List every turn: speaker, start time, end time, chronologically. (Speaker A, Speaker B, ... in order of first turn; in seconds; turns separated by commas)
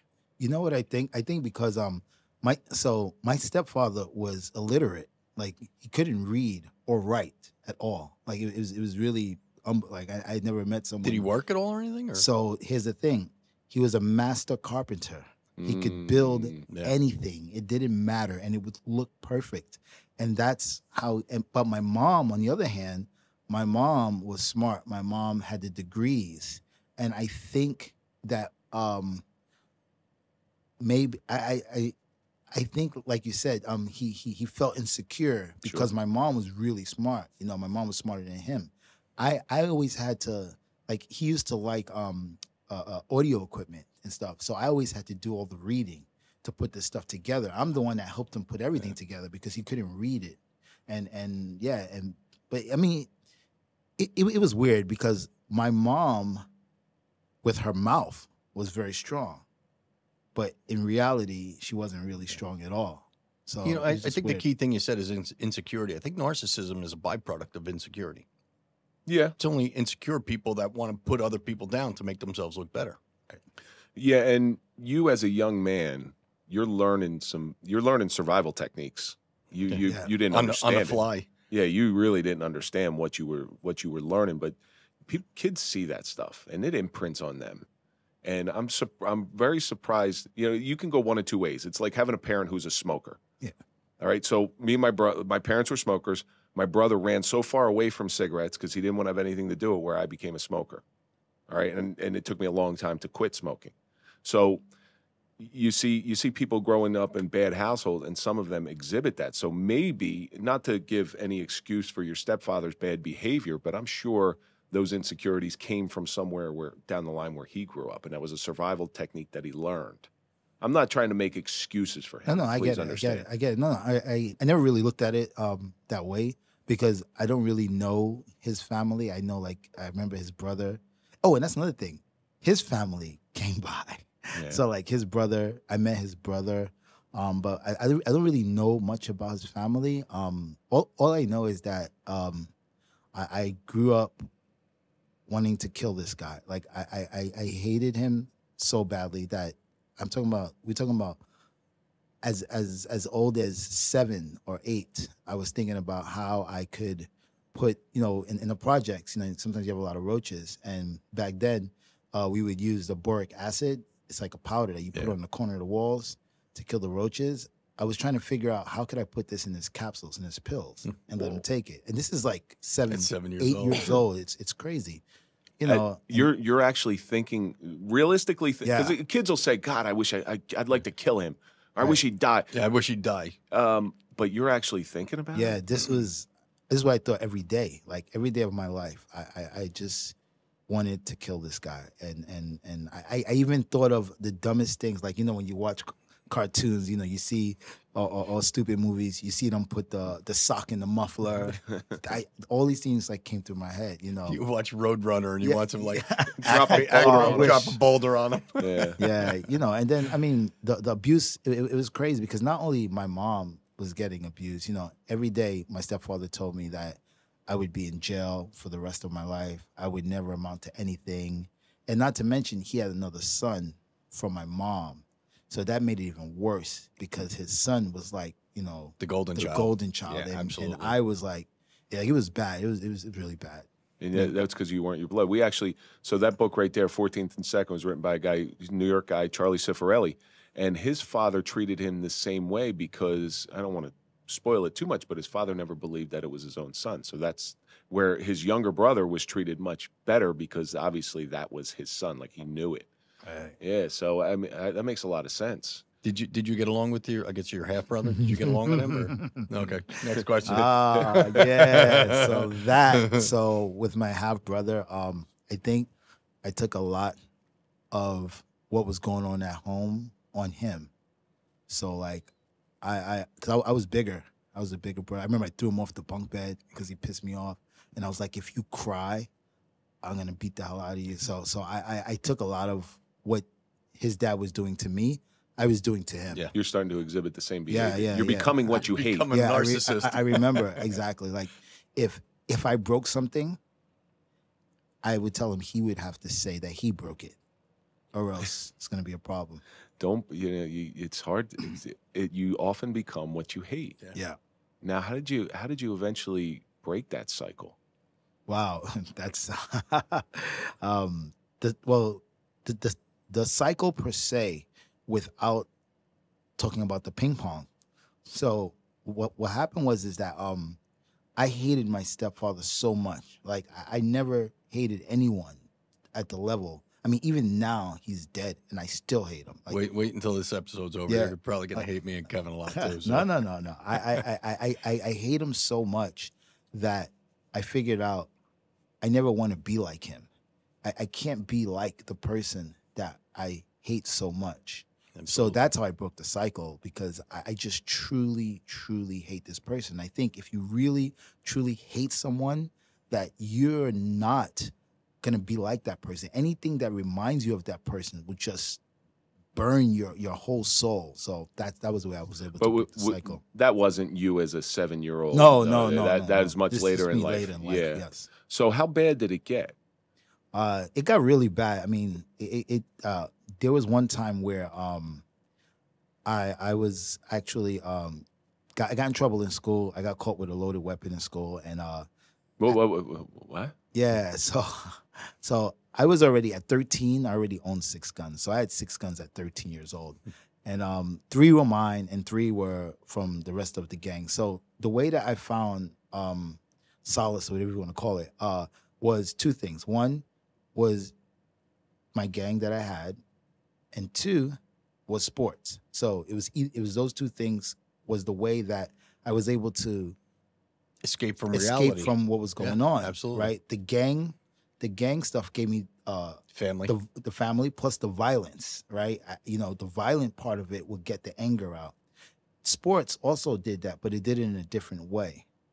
Speaker A: 0.4-11.3, Speaker B: 11.0-12.3, Speaker A: 12.2-29.2, Speaker C: 15.6-16.6, Speaker B: 16.7-17.0, Speaker A: 30.8-31.9, Speaker A: 32.5-53.1, Speaker C: 35.6-35.9, Speaker A: 54.0-56.4, Speaker A: 57.4-59.5, Speaker A: 60.4-64.4, Speaker B: 63.6-68.3, Speaker C: 69.1-69.3, Speaker B: 69.4-73.0, Speaker C: 74.0-84.6, Speaker B: 79.7-81.3, Speaker A: 79.8-80.1, Speaker C: 85.1-87.7, Speaker C: 88.2-93.2, Speaker C: 94.0-100.8, Speaker C: 101.5-104.6, Speaker C: 105.4-120.1, Speaker C: 120.6-123.3, Speaker A: 122.3-142.5, Speaker C: 134.3-134.6, Speaker A: 143.1-144.2, Speaker A: 145.3-151.2, Speaker A: 152.2-175.0, Speaker B: 170.8-171.4, Speaker B: 172.9-174.0, Speaker A: 175.6-176.3, Speaker C: 175.7-182.5, Speaker A: 178.6-179.0, Speaker B: 182.5-183.4, Speaker C: 183.5-185.6, Speaker A: 185.3-190.2, Speaker A: 190.7-204.4, Speaker B: 204.3-209.3, Speaker A: 205.4-207.8, Speaker C: 206.4-207.7, Speaker C: 208.6-209.0, Speaker A: 209.0-234.3, Speaker B: 229.0-230.9, Speaker C: 234.0-252.9, Speaker A: 253.2-253.6, Speaker C: 253.6-255.8, Speaker B: 256.0-263.3, Speaker A: 258.2-259.4, Speaker A: 260.4-265.9, Speaker A: 266.4-267.2, Speaker A: 267.9-270.9, Speaker A: 271.7-272.3, Speaker A: 272.8-279.3, Speaker A: 280.0-286.5, Speaker C: 286.5-289.3, Speaker A: 287.7-293.6, Speaker B: 288.8-290.9, Speaker A: 295.0-297.4, Speaker A: 298.1-299.6, Speaker C: 300.0-304.0, Speaker C: 304.8-307.8, Speaker A: 308.5-315.7, Speaker A: 316.6-317.7, Speaker A: 318.3-320.8, Speaker A: 321.4-329.8, Speaker B: 329.7-333.3, Speaker A: 331.1-331.9, Speaker A: 332.7-338.3, Speaker A: 339.0-340.3, Speaker A: 340.8-358.8, Speaker B: 345.1-345.6, Speaker A: 359.6-363.4, Speaker C: 362.6-369.8, Speaker A: 365.3-368.3, Speaker A: 370.5-375.2, Speaker A: 376.3-382.1, Speaker C: 382.6-383.8, Speaker A: 383.9-401.1, Speaker A: 402.1-403.2, Speaker A: 403.9-410.2, Speaker B: 411.0-413.5, Speaker A: 411.5-421.9, Speaker B: 416.5-416.9, Speaker A: 422.6-425.5